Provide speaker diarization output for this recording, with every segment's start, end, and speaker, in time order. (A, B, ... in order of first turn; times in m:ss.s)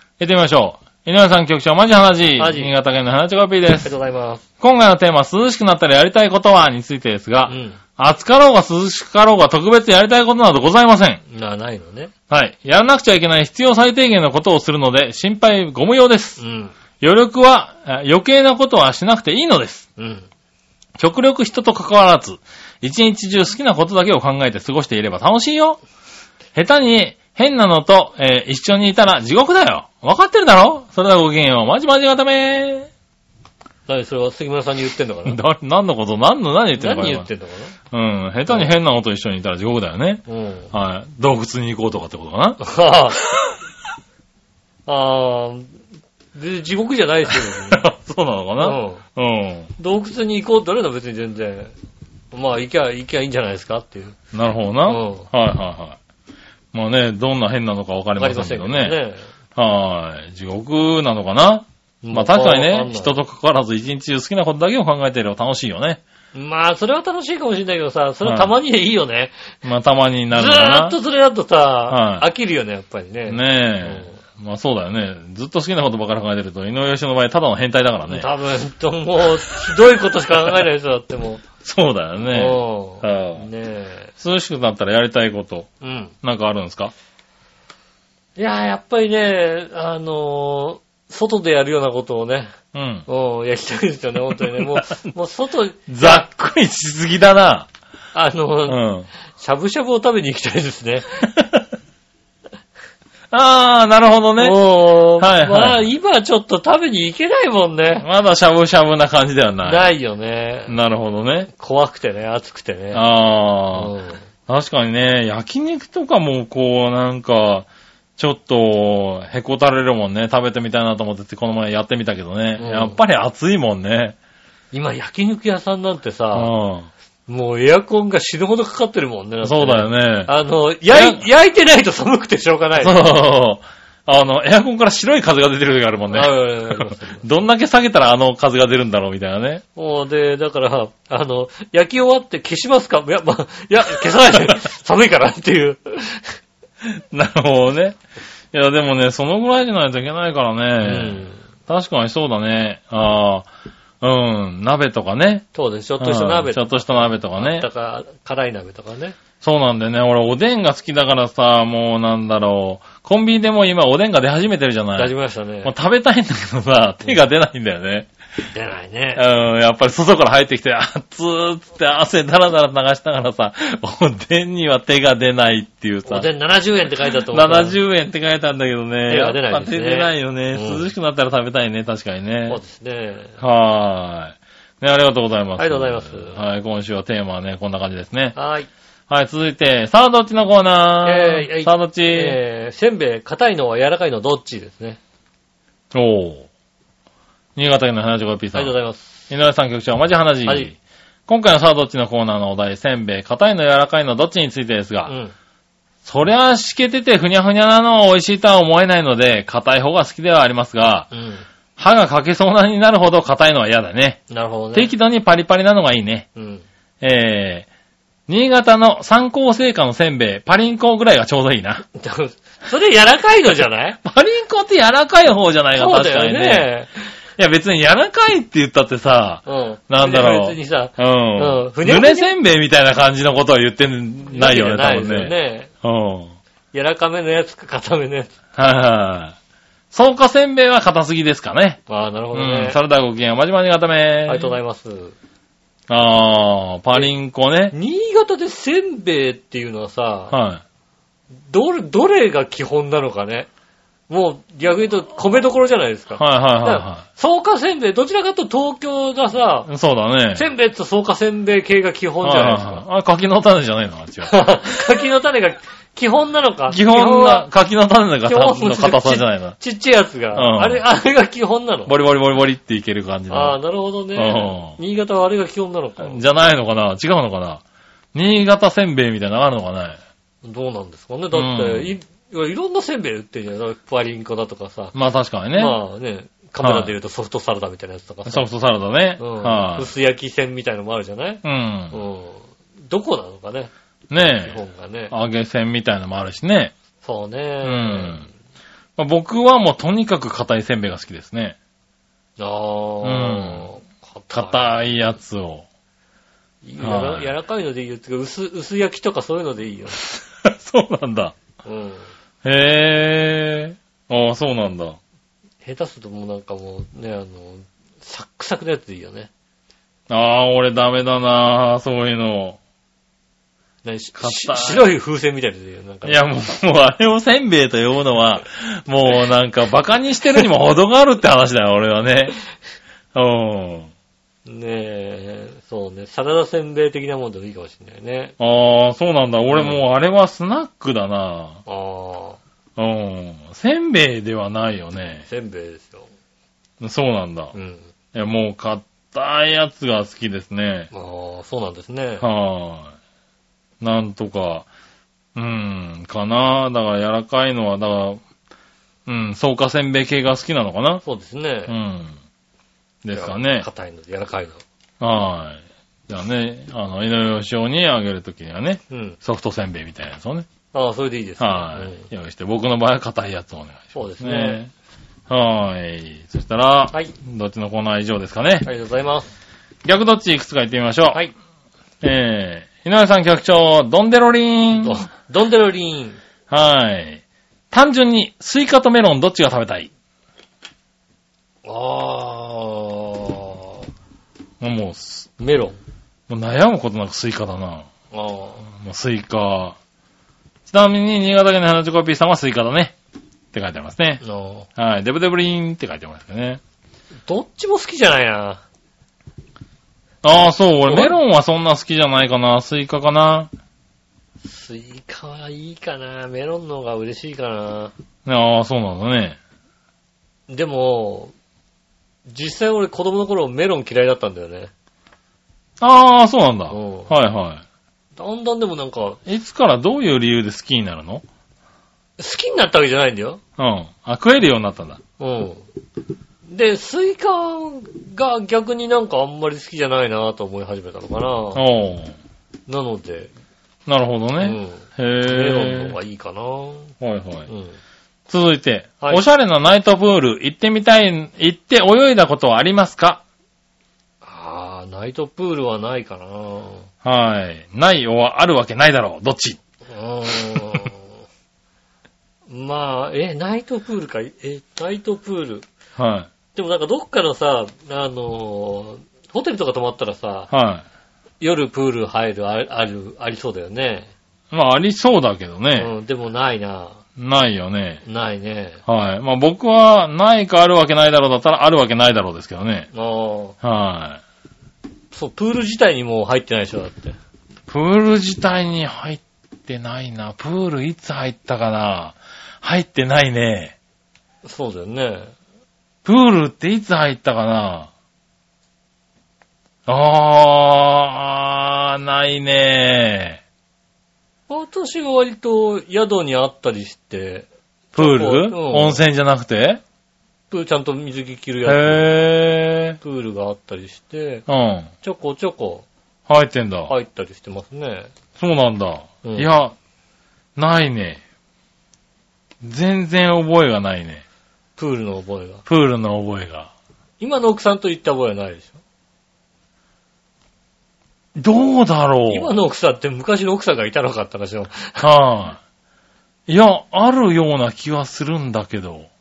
0:00.2-0:03.9 A
0:02.4-0:02.7 B
0:03.8-0:04.4 B
0:04.6-0:11.2 A
0:07.5-0:07.8 B
0:11.3-0:12.1 B
0:12.3-0:16.4 A
0:16.4-0:16.8 B
0:17.0-0:19.9 A
0:20.0-0:20.3 B
0:21.0-0:25.8 A
0:26.6-0:32.9 A
0:33.9-0:35.4 B
0:35.3-0:37.3 A
0:36.8-0:37.8 B
0:37.9-0:42.6 A
0:38.5-0:38.7 B
0:40.3-0:40.7 B
0:42.6-0:43.2 B
0:44.9-0:45.8 B
0:46.3-0:47.8 B
0:47.3-0:49.7 A
0:48.6-0:49.0 B
0:49.8-0:51.7 B
0:52.3-0:54.2 B
0:54.3-0:56.0 A
0:54.9-0:55.3 B
0:56.7-0:59.0 A
0:58.2-0:59.3 B
0:59.6-1:06.0 A
1:02.0-1:03.2 B
1:06.3-1:09.4 B
1:08.2-1:08.5 A
1:09.6-1:11.0 A
1:10.3-1:14.2 B
1:11.9-1:12.3 A
1:13.3-1:18.3 A
1:18.1-1:21.4 B
1:21.6-1:23.5 A
1:22.3-1:24.1 B
1:24.2-1:25.7 A
1:25.8-1:26.2 B
1:26.2-1:26.9 A
1:28.4-1:32.5 B
1:32.7-1:33.1 A
1:33.1-1:36.3 B
1:34.4-1:35.0 A
1:35.9-1:37.7 A
1:38.1-1:38.8 B
1:38.7-1:39.1 A
1:39.4-1:41.3 B
1:41.3-1:41.7 A
1:43.3-1:44.6 A
1:44.4-1:48.1 B
1:45.2-1:45.8 A
1:48.0-1:49.9 A
1:49.6-1:50.8 B
1:50.7-1:51.5 A
1:51.5-1:53.0 B
1:52.9-1:53.9 A
1:53.7-1:54.2 B
1:54.5-2:04.2 A
2:02.6-2:03.0 B
2:04.7-2:06.5 B
2:06.3-2:06.9 A
2:07.3-2:13.0 B
2:09.4-2:10.3 A
2:10.9-2:11.2 A
2:12.8-2:19.6 A
2:16.1-2:17.3 B
2:19.8-2:26.4 B
2:26.8-2:28.0 A
2:28.5-2:33.5 A
2:30.8-2:31.4 B
2:34.0-2:35.5 A
2:35.5-2:39.2 B
2:36.0-2:37.7 A
2:39.4-2:48.1 A
2:45.0-2:45.7 B
2:48.5-2:49.2 B
2:49.2-2:56.3 A
2:56.1-2:57.8 B
2:57.3-3:02.6 A
2:59.1-3:00.9 B
3:02.5-3:03.4 B
3:03.4-3:08.4 A
3:05.6-3:06.4 B
3:08.4-3:08.7 B
3:09.1-3:12.4 A
3:11.0-3:15.0 B
3:15.9-3:16.5 A
3:17.6-3:18.8 A
3:18.5-3:19.2 B
3:19.3-3:20.8 A
3:20.5-3:20.7 B
3:21.3-3:25.1 A
3:25.1-3:25.3 B
3:26.0-3:31.1 A
3:31.1-3:31.5 B
3:31.8-3:34.2 A
3:34.3-3:34.9 B
3:34.7-3:36.3 A
3:36.4-3:36.6 B
3:37.0-3:37.7 A
3:38.3-3:41.8 A
3:41.9-3:44.0 B
3:44.0-3:46.7 A
3:45.8-3:47.1 B
3:47.4-3:56.4 A
3:49.5-3:52.3 B
3:54.3-3:55.7 B
3:56.7-3:58.4 B
3:58.6-3:59.4 A
3:59.9-4:01.8 A
4:01.9-4:02.8 B
4:02.3-4:04.6 A
4:04.3-4:05.2 B
4:05.9-4:07.8 A
4:07.7-4:10.4 B
4:10.3-4:10.6 A
4:11.5-4:13.5 B
4:14.1-4:19.7 B
4:16.2-4:17.0 A
4:19.7-4:20.5 A
4:20.4-4:22.8 B
4:22.2-4:24.3 A
4:24.3-4:27.5 B
4:26.7-4:29.6 A
4:28.2-4:31.9 B
4:30.3-4:30.8 A
4:31.9-4:33.6 A
4:33.3-4:36.2 B
4:34.2-4:34.8 A
4:36.0-4:37.6 A
4:38.1-4:40.0 A
4:40.4-4:44.9 B
4:41.3-4:42.0 A
4:44.9-4:45.8 A
4:45.6-4:48.5 B
4:46.6-4:46.9 A
4:48.3-4:49.9 A
4:49.2-4:53.7 B
4:51.4-4:52.0 A
4:54.1-4:56.8 A
4:54.4-4:55.1 B
4:57.0-4:58.3 B
4:57.6-4:58.3 A
4:59.0-5:01.6 A
5:02.4-5:04.9 B
5:03.0-5:03.7 A
5:04.3-5:05.6 A
5:06.6-5:10.0 B
5:06.8-5:07.3 A
5:10.4-5:11.4 A
5:11.6-5:12.1 B
5:12.4-5:15.0 A
5:15.6-5:19.3 B
5:20.1-5:22.6 A
5:23.8-5:26.2 B
5:24.2-5:24.9 A
5:26.0-5:32.4 A
5:33.1-5:33.9 A
5:34.5-5:38.4 B
5:38.4-5:41.6 A
5:39.5-5:39.8 B
5:41.7-5:42.4 B
5:42.8-5:45.3 A
5:45.2-5:46.1 B
5:46.8-5:47.5 A
5:47.5-5:47.9 B
5:48.1-5:50.9 A
5:50.9-5:52.2 B
5:52.2-5:52.9 A
5:53.8-5:54.7 A
5:55.4-5:58.2 A
5:59.1-6:01.0 A
6:01.0-6:01.8 B
6:01.7-6:02.2 A
6:03.0-6:03.7 A
6:03.1-6:04.6 B
6:05.0-6:10.5 A
6:08.9-6:09.2 B
6:10.7-6:12.1 B
6:11.4-6:14.7 A
6:13.9-6:14.6 B
6:15.3-6:18.7 A
6:18.6-6:19.3 B
6:19.8-6:21.2 A
6:22.0-6:25.0 A
6:24.8-6:26.2 B
6:26.5-6:29.9 A
6:31.6-6:33.8 B
6:34.6-6:35.3 A
6:35.4-6:35.8 B
6:36.3-6:37.9 A
6:38.1-6:38.7 B
6:38.7-6:39.8 A
6:40.7-6:43.0 A
6:43.5-6:44.2 A
6:44.2-6:44.7 B
6:44.8-6:46.6 A
6:47.3-6:48.6 B
6:50.2-6:53.5 A
6:50.9-6:51.2 B
6:54.4-6:57.9 B
6:58.2-6:59.4 A
7:00.5-7:01.3 B
7:02.3-7:04.7 B
7:05.8-7:07.6 A
7:06.7-7:07.1 B
7:08.2-7:09.2 B
7:09.3-7:11.2 A
7:12.2-7:13.4 B
7:13.6-7:15.0 A
7:15.2-7:15.6 B
7:16.5-7:21.6 B
7:21.6-7:22.2 A
7:22.7-7:23.3 B
7:23.9-7:26.0 A
7:24.4-7:26.9 B
7:27.0-7:27.5 A
7:27.5-7:27.8 B
7:28.3-7:33.2 A
7:34.2-7:36.9 B
7:37.0-7:39.6 A
7:39.9-7:41.2 B
7:42.5-7:45.7 B
7:46.0-7:46.3 A
7:46.5-7:50.5 B
7:50.5-7:50.8 A
7:51.4-7:54.1 B
7:54.5-7:55.9 A
7:55.8-7:57.0 B
7:57.2-7:58.0 A
7:58.0-7:58.8 B
7:58.9-8:02.9 A
8:02.9-8:03.6 B
8:03.6-8:04.2 A
8:05.1-8:07.2 B
8:07.7-8:13.8 A
8:14.4-8:15.3 B
8:16.0-8:17.9 A
8:19.9-8:23.4 A
8:24.5-8:29.0 B
8:28.0-8:29.8 A
8:30.5-8:32.1 B
8:31.7-8:33.0 A
8:33.0-8:34.4 B
8:34.5-8:34.9 A
8:35.0-8:35.9 B
8:36.3-8:36.9 A
8:36.9-8:38.1 B
8:38.4-8:39.7 A
8:39.2-8:39.5 B
8:40.6-8:41.2 A
8:42.6-8:44.2 A
8:44.8-8:45.6 B
8:45.7-8:46.7 A
8:47.2-8:48.8 B
8:51.4-8:52.5 A
8:52.3-8:55.1 B
8:55.0-8:55.6 A
8:56.5-8:59.1 A